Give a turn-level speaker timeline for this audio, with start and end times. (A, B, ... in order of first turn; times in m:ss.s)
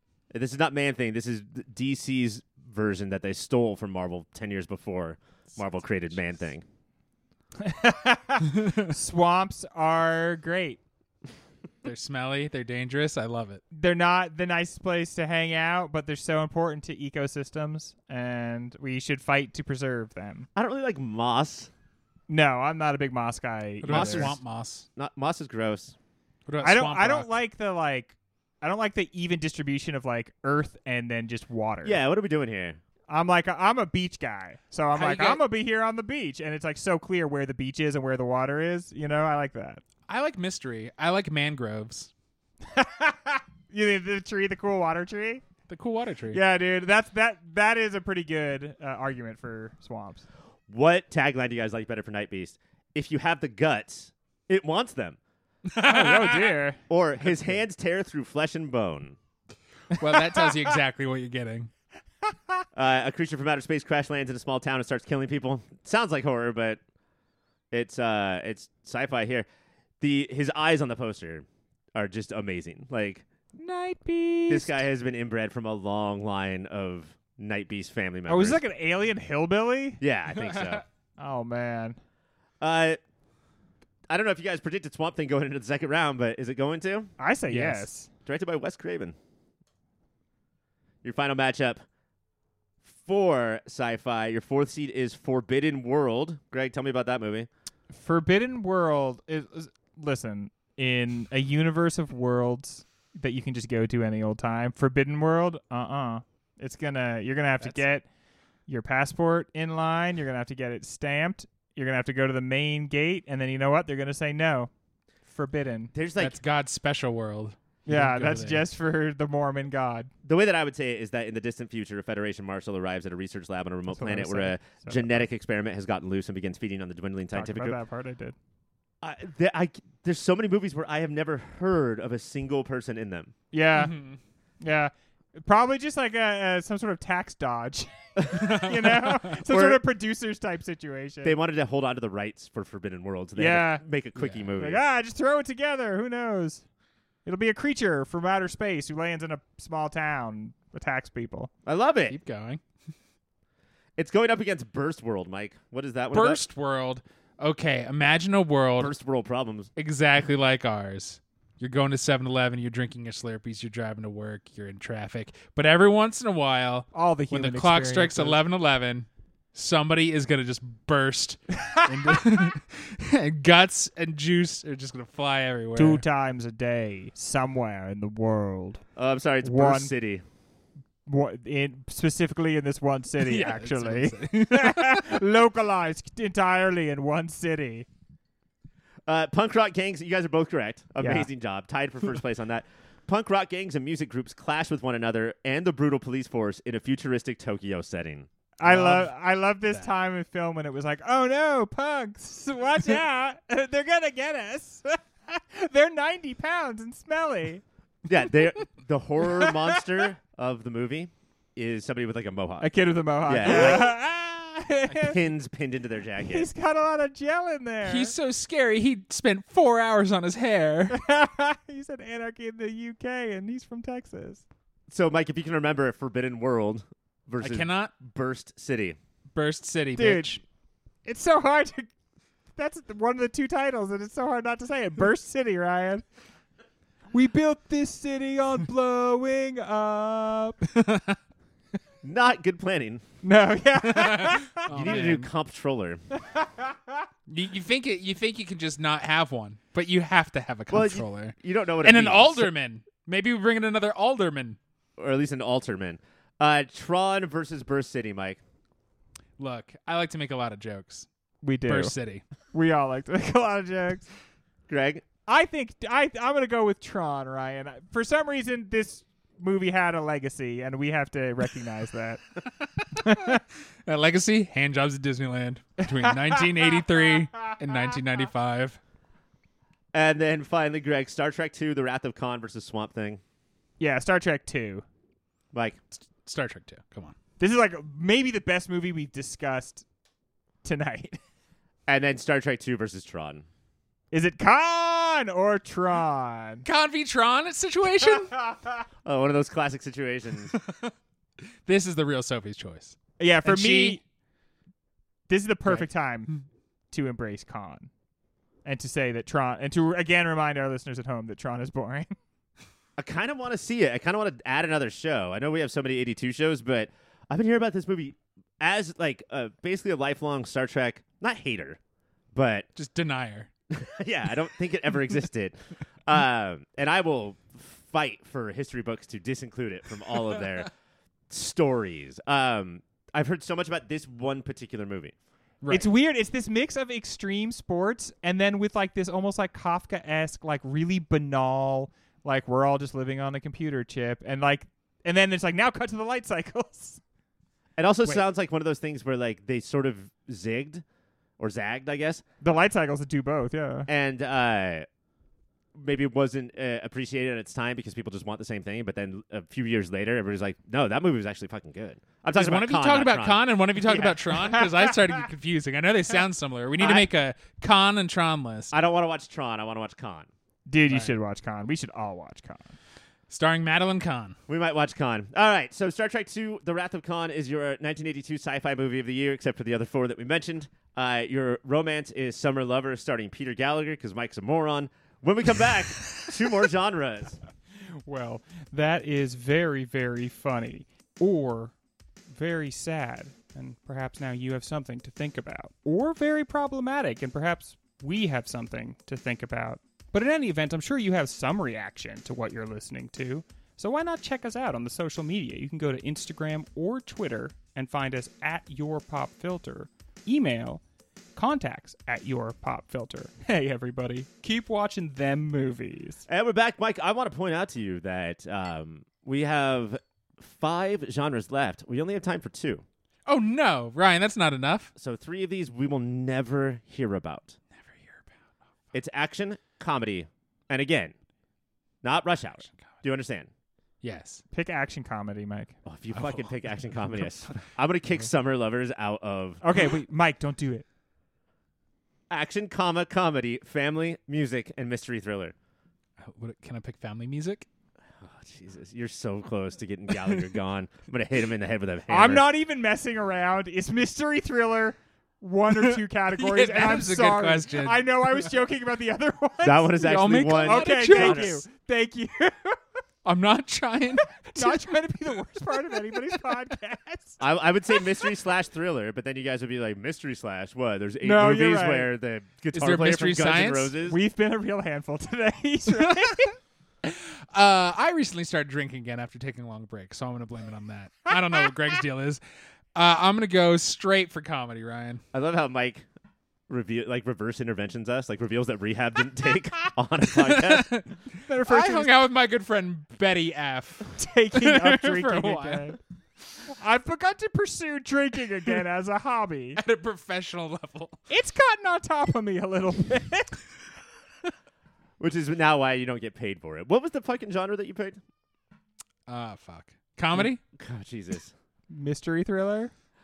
0:00.3-0:06.6 A
0:07.6-0:10.8 B
0:11.8-0:13.6 C
0:13.7-0:20.5 B
0:20.6-0:21.7 A
0:22.3-0:24.4 B
0:23.8-0:24.8 C
0:23.9-0:24.4 A
0:25.0-0:26.0 A
0:26.5-0:27.3 C
0:26.6-0:32.0 B
0:31.8-0:32.8 A
0:33.1-0:39.8 B
0:34.9-0:35.4 C
0:40.1-0:42.1 C
0:42.7-0:45.4 B
0:45.7-0:46.4 C
0:46.3-0:50.2 B
0:50.7-0:55.2 A
0:55.7-0:56.6 C
0:55.8-0:56.8 B
0:56.9-0:59.2 A
0:59.9-1:00.6 B
0:59.9-1:01.7 C
1:02.7-1:06.8 A
1:07.7-1:09.4 A
1:10.0-1:13.2 A
1:13.6-1:14.8 B
1:14.5-1:18.6 A
1:18.3-1:20.0 B
1:20.0-1:20.8 A
1:20.4-1:20.7 C
1:21.2-1:22.0 B
1:22.6-1:23.0 A
1:24.1-1:27.1 A
1:27.2-1:28.1 B
1:27.5-1:27.9 C
1:28.2-1:29.2 A
1:31.0-1:31.8 A
1:32.8-1:37.5 A
1:37.9-1:48.0 B
1:48.7-1:54.7 B
1:55.3-1:55.9 B
1:55.9-1:56.4 A
1:56.2-1:58.6 C
1:57.9-2:00.1 B
2:00.2-2:07.8 A
2:03.9-2:05.2 B
2:07.3-2:08.3 B
2:09.0-2:13.3 A
2:13.5-2:13.9 B
2:13.8-2:14.2 C
2:14.6-2:21.4 B
2:18.2-2:18.5 A
2:18.5-2:19.2 C
2:19.4-2:19.8 A
2:21.2-2:24.8 A
2:23.3-2:23.8 B
2:24.2-2:24.5 C
2:24.6-2:26.6 B
2:27.2-2:31.5 B
2:31.6-2:32.2 A
2:32.1-2:32.6 C
2:34.0-2:36.4 A
2:36.1-2:38.9 C
2:38.8-2:39.7 A
2:39.8-2:56.0 C
2:46.9-2:48.4 B
2:55.8-2:58.8 B
2:59.0-3:00.2 A
2:59.4-2:59.9 B
3:01.0-3:07.9 B
3:03.2-3:05.2 C
3:09.1-3:18.3 A
3:11.0-3:11.3 B
3:18.6-3:27.6 B
3:18.6-3:19.1 C
3:28.0-3:32.7 A
3:29.3-3:29.8 B
3:32.6-3:35.2 B
3:33.2-3:33.9 A
3:35.0-3:36.5 A
3:36.2-3:38.1 B
3:37.8-3:41.0 C
3:40.9-3:44.4 B
3:44.9-3:49.0 A
3:47.4-3:47.9 C
3:49.3-3:50.4 C
3:50.0-3:50.4 B
3:51.0-3:51.9 B
3:52.6-3:56.0 B
3:57.1-4:00.7 B
4:00.7-4:01.2 C
4:02.0-4:03.0 A
4:03.2-4:04.7 B
4:03.9-4:05.3 C
4:04.7-4:06.0 A
4:06.2-4:07.0 B
4:07.3-4:14.6 C
4:10.7-4:12.5 A
4:15.0-4:18.4 A
4:19.4-4:21.1 C
4:21.4-4:21.9 B
4:21.7-4:22.2 C
4:22.5-4:24.1 B
4:24.7-4:25.0 A
4:25.3-4:32.2 B
4:32.8-4:38.8 C
4:33.0-4:33.4 B
4:35.8-4:37.2 B
4:39.9-4:43.2 A
4:43.8-4:44.8 B
4:45.5-4:45.8 A
4:46.2-4:47.1 C
4:47.4-4:49.8 B
4:50.6-4:51.2 B
4:51.9-4:53.4 A
4:54.1-4:56.6 B
4:56.6-4:58.3 C
4:59.0-5:00.5 A
5:00.5-5:00.9 C
5:01.6-5:04.0 C
5:03.2-5:04.0 B
5:05.3-5:06.3 B
5:06.9-5:07.9 B
5:08.6-5:12.1 B
5:13.0-5:21.8 A
5:22.3-5:22.7 A
5:22.8-5:23.5 C
5:23.7-5:30.7 A
5:31.3-5:35.1 A
5:35.6-5:35.9 C
5:35.7-5:47.0 B
5:47.8-5:50.8 A
5:51.4-5:52.2 A
5:52.4-5:53.9 B
5:53.9-5:54.9 A
5:55.7-6:04.2 A
6:02.3-6:08.7 C
6:04.5-6:04.9 B
6:06.8-6:07.1 A
6:08.7-6:10.3 A
6:10.7-6:12.8 B
6:10.9-6:11.1 C
6:13.3-6:14.4 C
6:14.5-6:27.4 A
6:27.9-6:31.7 B
6:32.3-6:50.8 B
6:51.4-6:56.2 B
6:56.3-7:02.8 A
7:03.3-7:04.9 C
7:05.0-7:07.6 A
7:07.7-7:08.3 C
7:08.9-7:11.1 A
7:12.0-7:13.5 A
7:14.0-7:14.4 C
7:14.5-7:15.7 B
7:15.8-7:19.6 A
7:16.1-7:17.6 C
7:19.6-7:20.8 B
7:22.3-7:25.5 A
7:26.2-7:27.6 C
7:28.2-7:32.4 A
7:32.1-7:42.8 B
7:35.8-7:38.5 C
7:39.6-7:41.6 A
7:40.0-7:41.6 C
7:43.2-7:45.0 C
7:44.6-7:47.4 B
7:47.4-7:54.2 A
7:51.2-7:52.1 B
7:52.7-7:53.9 C
7:54.0-7:56.6 B
7:57.0-8:02.4 C
8:02.9-8:05.2 C
8:05.3-8:06.0 A
8:06.7-8:10.9 A
8:10.3-8:15.9 C
8:11.4-8:12.1 B
8:14.2-8:16.0 B
8:16.7-8:19.8 B
8:19.8-8:21.2 C
8:21.3-8:23.6 B
8:25.2-8:28.2 A
8:29.3-8:30.6 C
8:30.4-8:31.5 A
8:31.9-8:32.9 B